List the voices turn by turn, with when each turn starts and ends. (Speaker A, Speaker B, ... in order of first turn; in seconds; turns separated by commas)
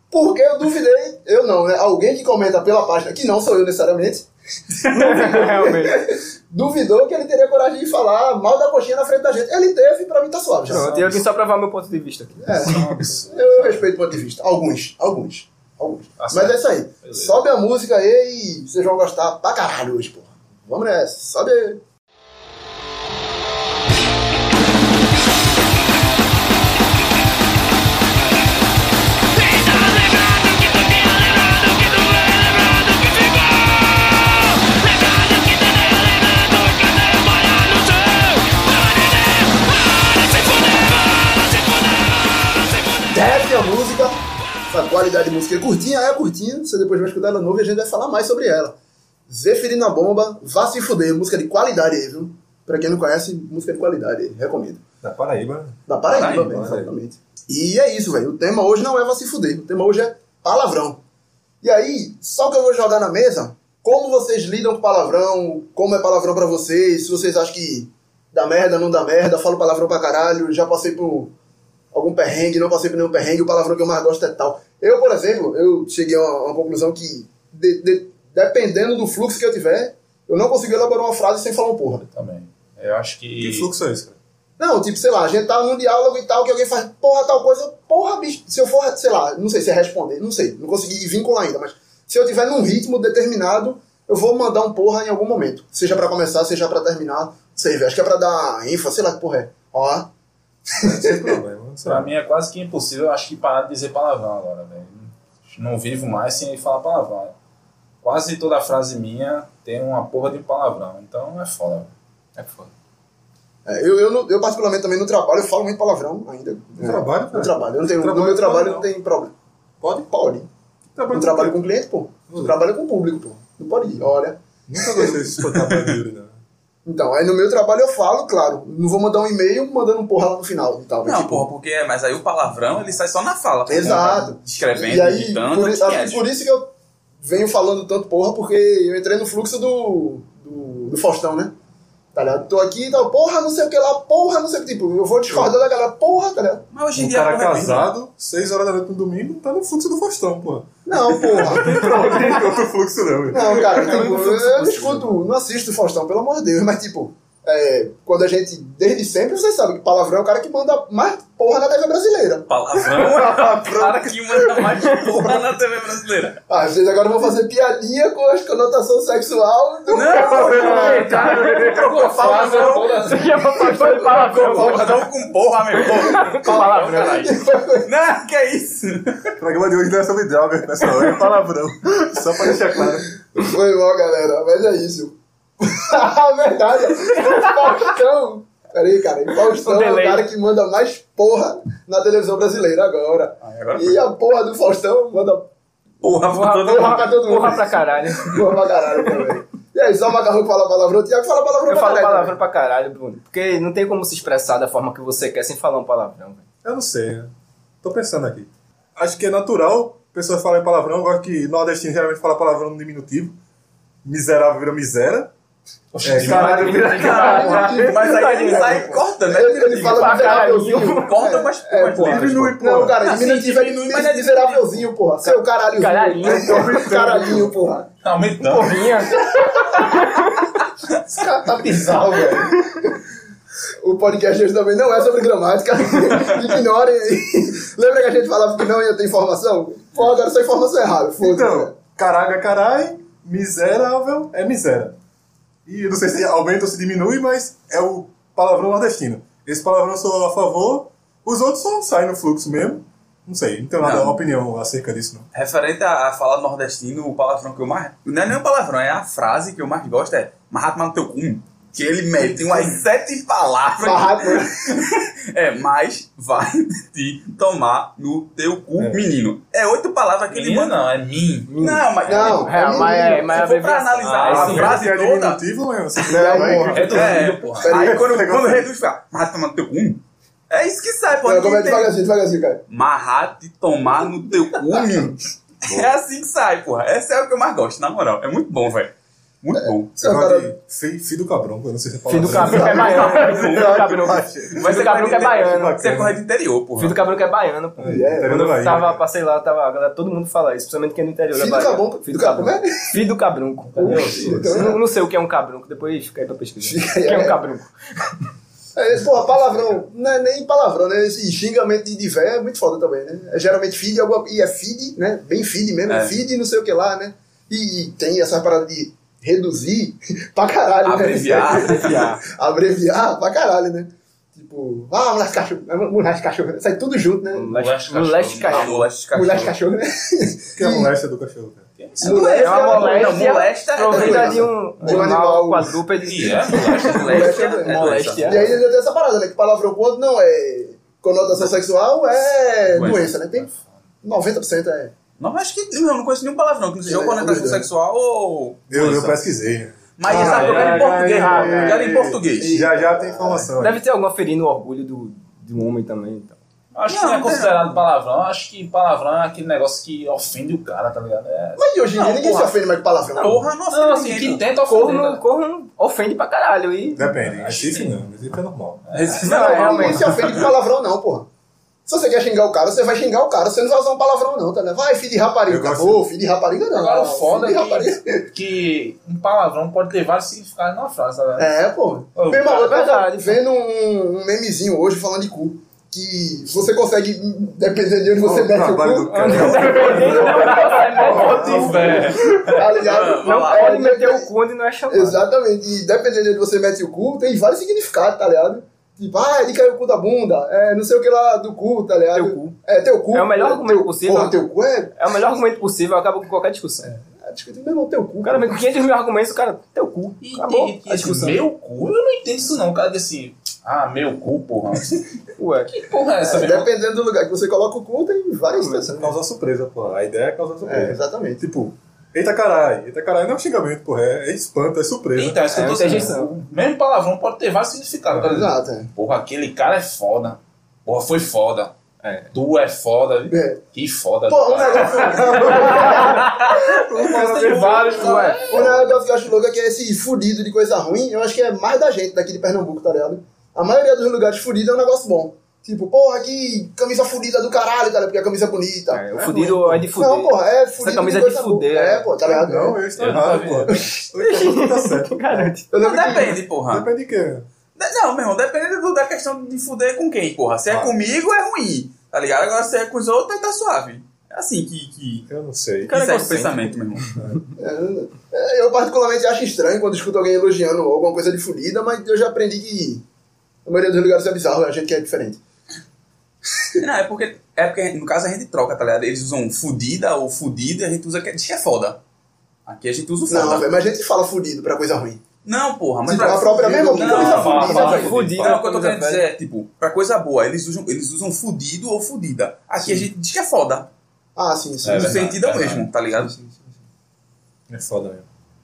Speaker A: 0.1-11.2, Speaker B: 4.9-6.0, Speaker B: 10.7-13.0, Speaker C: 10.7-11.2, Speaker A: 12.4-21.8, Speaker C: 12.5-13.9, Speaker C: 16.2-17.4, Speaker A: 43.1-48.8, Speaker A: 49.3-54.8, Speaker D: 55.0-56.9, Speaker A: 55.9-61.0, Speaker E: 56.1-56.5, Speaker A: 61.6-71.3, Speaker A: 71.9-82.0, Speaker C: 82.0-83.7, Speaker D: 83.4-84.2, Speaker A: 84.6-100.1, Speaker A: 100.7-101.4, Speaker D: 100.8-102.1, Speaker C: 101.8-107.3, Speaker C: 108.0-111.9, Speaker B: 112.3-112.7, Speaker A: 113.6-119.3, Speaker D: 116.8-118.9, Speaker D: 119.8-120.1, Speaker A: 120.1-120.5, Speaker D: 120.9-121.6, Speaker A: 121.1-125.2, Speaker D: 122.3-122.5, Speaker D: 124.7-126.3, Speaker E: 125.5-126.0, Speaker A: 126.8-131.4, Speaker E: 131.0-136.2, Speaker A: 133.7-141.5, Speaker A: 142.1-146.6, Speaker E: 146.7-147.9, Speaker D: 146.9-154.0, Speaker A: 150.8-152.1, Speaker B: 151.7-152.3, Speaker A: 153.3-162.5, Speaker B: 153.7-155.1, Speaker E: 162.5-166.4, Speaker D: 162.9-164.1, Speaker A: 166.5-171.2, Speaker E: 169.9-172.8, Speaker D: 170.2-171.0, Speaker B: 170.4-175.1, Speaker C: 170.6-174.7, Speaker A: 172.1-172.9, Speaker E: 173.8-179.3, Speaker B: 175.8-177.3, Speaker A: 176.4-177.9, Speaker D: 179.4-183.1, Speaker A: 182.4-195.5, Speaker B: 189.5-190.2, Speaker E: 193.4-194.0, Speaker E: 196.0-197.5, Speaker B: 196.1-198.4, Speaker A: 196.6-202.4, Speaker B: 201.7-206.4, Speaker D: 206.6-207.3, Speaker D: 207.8-213.4, Speaker D: 214.0-215.3, Speaker C: 215.9-217.4, Speaker D: 216.0-217.6, Speaker B: 216.2-219.1, Speaker E: 216.8-224.9, Speaker A: 216.8-227.9, Speaker B: 219.7-221.1, Speaker D: 222.0-223.0, Speaker B: 225.8-227.5, Speaker D: 226.2-227.5, Speaker C: 228.0-229.1, Speaker B: 228.4-230.5, Speaker C: 230.9-232.5, Speaker A: 231.6-232.2, Speaker B: 231.9-232.8, Speaker A: 233.8-241.7, Speaker D: 241.2-244.9, Speaker D: 245.7-255.3, Speaker E: 253.8-254.2, Speaker E: 255.3-270.8, Speaker A: 263.8-264.8, Speaker D: 268.8-269.1, Speaker C: 270.3-271.6, Speaker B: 271.5-274.6, Speaker E: 271.6-272.5, Speaker A: 272.1-273.4, Speaker E: 273.2-275.4, Speaker C: 274.0-274.8, Speaker D: 274.2-278.7, Speaker A: 276.1-278.0, Speaker C: 276.3-277.8, Speaker E: 276.8-281.9, Speaker A: 281.2-282.6, Speaker E: 282.7-289.9, Speaker A: 289.5-290.5, Speaker D: 290.0-296.2, Speaker B: 292.1-295.8, Speaker A: 292.4-293.1, Speaker E: 292.4-297.0, Speaker B: 296.8-308.3, Speaker D: 297.8-299.0, Speaker A: 297.8-298.5, Speaker A: 301.3-303.0, Speaker C: 303.7-304.7, Speaker A: 303.8-304.8, Speaker A: 306.6-307.4, Speaker A: 308.7-327.5, Speaker E: 315.9-316.2, Speaker E: 320.8-322.1, Speaker B: 321.6-322.2, Speaker B: 327.3-328.9, Speaker C: 327.5-328.7, Speaker E: 328.3-329.5, Speaker A: 328.5-330.9, Speaker D: 330.6-331.6, Speaker C: 331.8-332.4, Speaker A: 332.0-335.8, Speaker E: 332.0-334.9, Speaker B: 332.2-338.6, Speaker C: 336.0-337.9, Speaker E: 336.7-338.5, Speaker A: 337.0-343.5, Speaker E: 342.6-343.1, Speaker C: 342.9-343.8, Speaker A: 344.0-344.9, Speaker E: 345.2-349.2, Speaker A: 346.8-347.7, Speaker D: 348.7-353.8, Speaker E: 350.0-352.6, Speaker A: 350.1-350.6, Speaker B: 350.1-351.8, Speaker C: 350.2-350.8, Speaker A: 352.4-353.5, Speaker B: 353.6-356.4, Speaker C: 356.7-361.6, Speaker E: 356.9-357.8, Speaker A: 361.6-363.5, Speaker E: 361.9-362.6, Speaker E: 363.1-364.4, Speaker C: 363.7-365.2, Speaker B: 364.6-367.1, Speaker D: 366.9-368.8, Speaker C: 367.3-367.9, Speaker C: 368.9-370.4, Speaker E: 369.0-370.5, Speaker B: 369.2-370.1, Speaker A: 369.2-371.3, Speaker A: 371.9-378.3, Speaker D: 375.5-376.1, Speaker C: 376.7-381.5, Speaker A: 381.4-394.3, Speaker C: 382.1-382.6, Speaker B: 382.4-383.4, Speaker D: 388.2-392.4, Speaker B: 389.0-392.1, Speaker C: 390.9-392.6, Speaker E: 392.5-393.7, Speaker B: 393.1-395.2, Speaker A: 394.9-404.9, Speaker B: 402.1-402.6, Speaker B: 403.1-404.4, Speaker B: 405.0-406.9, Speaker A: 406.8-408.6, Speaker B: 408.2-411.4, Speaker C: 410.2-416.7, Speaker B: 415.4-415.8, Speaker A: 416.2-419.1, Speaker B: 418.5-418.9, Speaker D: 418.9-426.1, Speaker A: 420.6-421.4, Speaker C: 425.1-431.7, Speaker B: 425.5-426.3, Speaker A: 428.2-428.9, Speaker B: 432.0-432.3, Speaker C: 432.3-436.0, Speaker A: 433.3-433.6, Speaker A: 434.3-436.3, Speaker D: 435.2-438.2, Speaker B: 435.7-438.7, Speaker C: 437.0-438.8, Speaker A: 438.5-449.1, Speaker B: 448.9-452.1, Speaker D: 449.2-449.8, Speaker A: 449.9-452.8, Speaker D: 452.2-455.5, Speaker C: 452.9-453.9, Speaker B: 453.7-455.7, Speaker A: 455.7-456.4, Speaker E: 455.8-456.9, Speaker D: 456.7-457.4, Speaker E: 457.8-465.3, Speaker D: 460.7-460.9, Speaker D: 465.3-465.9, Speaker B: 465.9-466.7, Speaker E: 465.9-467.2, Speaker A: 467.6-473.0, Speaker A: 473.6-475.4, Speaker E: 476.8-482.0, Speaker E: 482.6-483.7, Speaker A: 483.3-485.2, Speaker E: 485.4-493.9, Speaker A: 486.1-488.2, Speaker C: 486.9-488.6, Speaker B: 487.1-489.3, Speaker A: 494.4-495.2, Speaker C: 494.8-495.9, Speaker E: 494.9-496.3, Speaker A: 496.2-496.6, Speaker D: 497.7-498.2